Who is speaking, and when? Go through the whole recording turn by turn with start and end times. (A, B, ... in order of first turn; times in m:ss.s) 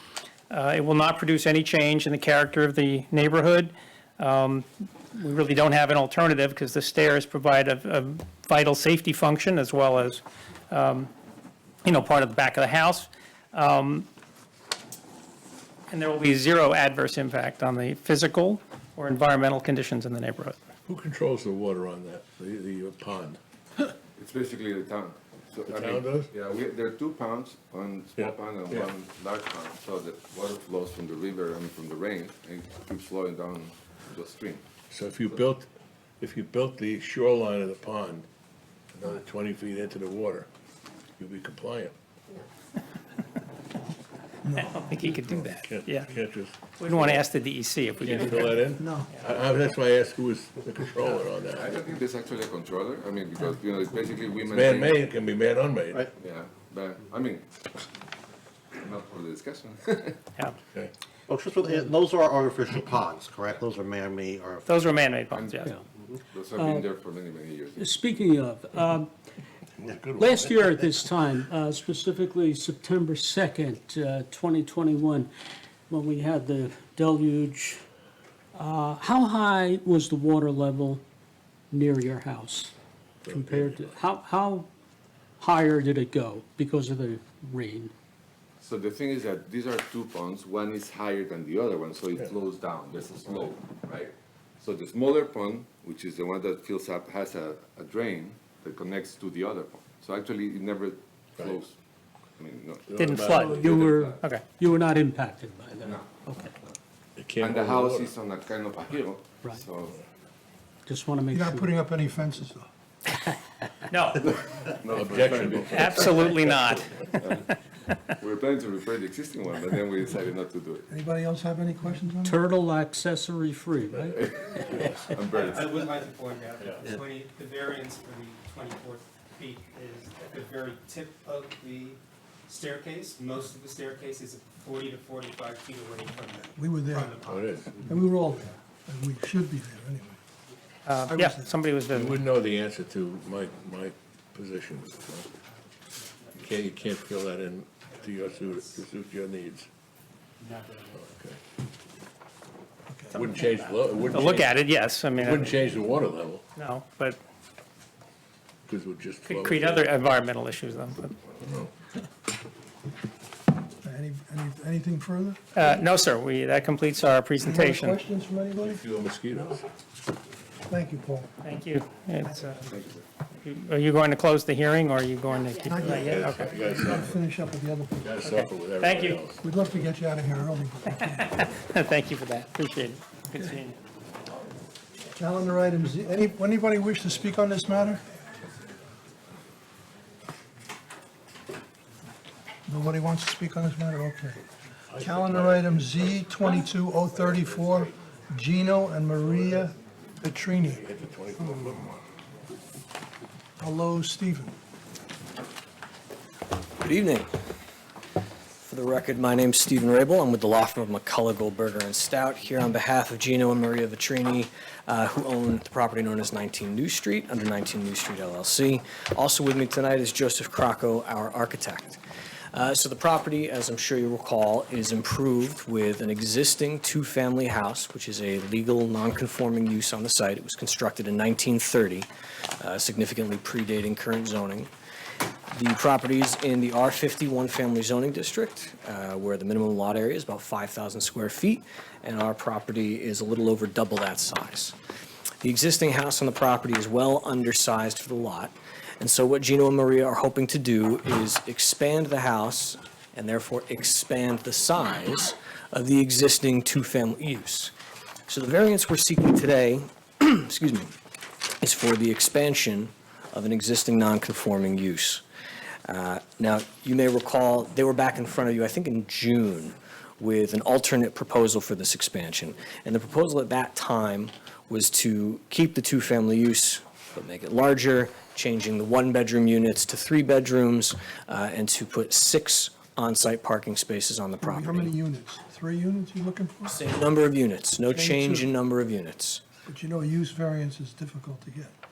0:00.5-0:11.1 A
0:11.8-0:14.1 A
0:15.9-0:20.6 A
0:20.8-0:23.9 B
0:24.2-0:34.6 C
0:25.6-0:26.3 B
0:28.2-0:28.9 B
0:34.9-0:35.7 B
0:36.2-0:38.2 B
0:38.9-0:40.5 B
0:41.2-0:41.9 B
0:44.4-0:44.8 D
0:44.5-0:46.1 A
0:45.3-0:47.3 B
0:46.8-0:48.6 A
0:48.0-0:51.7 B
0:48.8-0:49.1 D
0:51.5-0:55.0 C
0:54.4-0:56.1 B
0:56.2-0:57.4 C
0:58.8-1:00.2 C
1:01.3-1:04.8 E
1:04.6-1:05.7 A
1:05.3-1:05.6 C
1:06.3-1:07.9 C
1:06.5-1:06.8 F
1:07.8-1:09.1 F
1:09.8-1:10.3 B
1:10.2-1:15.3 F
1:15.9-1:17.8 F
1:18.5-1:21.0 F
1:21.7-1:22.7 F
1:23.2-1:24.0 B
1:23.2-1:24.7 F
1:25.4-1:27.9 F
1:28.6-1:41.7 C
1:42.4-1:42.8 C
1:42.9-1:44.0 B
1:43.0-1:43.6 A
1:43.2-1:46.5 F
1:43.5-1:44.2 C
1:45.8-1:46.8 C
1:47.2-1:48.1 B
1:47.4-1:50.0 C
1:50.8-1:51.8 F
1:51.3-1:52.7 D
1:53.9-1:54.3 A
1:54.2-1:56.2 C
1:54.9-1:56.3 B
1:55.6-1:56.9 A
1:57.1-1:57.4 C
1:58.1-2:00.9 C
2:00.9-2:02.4 D
2:02.2-2:04.2 F
2:03.9-2:05.9 C
2:05.3-2:17.6 G
2:16.5-2:17.2 D
2:17.2-2:17.9 B
2:17.8-2:20.2 D
2:20.9-2:22.2 A
2:21.1-2:21.5 D
2:21.9-2:25.3 B
2:26.4-2:29.7 B
2:28.1-2:28.8 G
2:30.4-2:30.9 G
2:30.9-2:31.4 B
2:32.9-2:33.2 D
2:33.1-2:34.6 B
2:34.1-2:35.5 A
2:35.1-2:36.4 B
2:36.6-2:37.2 A
2:38.6-2:40.0 B
2:39.2-2:41.2 A
2:41.4-2:41.7 B
2:43.8-2:45.4 D
2:45.5-2:48.0 A
2:47.4-2:48.8 D
2:48.6-2:49.6 B
2:50.7-2:51.3 D
2:51.4-2:52.6 A
2:52.3-2:52.7 D
2:52.7-2:53.0 C
2:53.4-2:56.5 A
2:55.7-2:58.2 D
2:56.0-2:57.2 B
2:58.0-2:59.4 B
2:58.2-2:59.2 A
2:59.4-3:01.4 D
3:01.1-3:03.8 A
3:05.1-3:08.0 D
3:12.7-3:14.4 D
3:14.9-3:16.4 B
3:15.0-3:20.8 D
3:17.1-3:17.9 B
3:19.2-3:19.7 B
3:20.6-3:22.0 B
3:23.6-3:24.6 D
3:26.8-3:27.3 H
3:28.6-3:42.0 H
3:42.5-3:52.1 H
3:52.6-3:54.7 H
3:55.5-4:04.7 H
4:05.4-4:17.7 H
4:18.3-4:20.9 H
4:21.6-4:25.2 H
4:25.8-4:44.9 H
4:44.4-4:46.8 D
4:46.7-4:49.4 H
4:47.9-4:48.5 D
4:49.6-4:51.7 D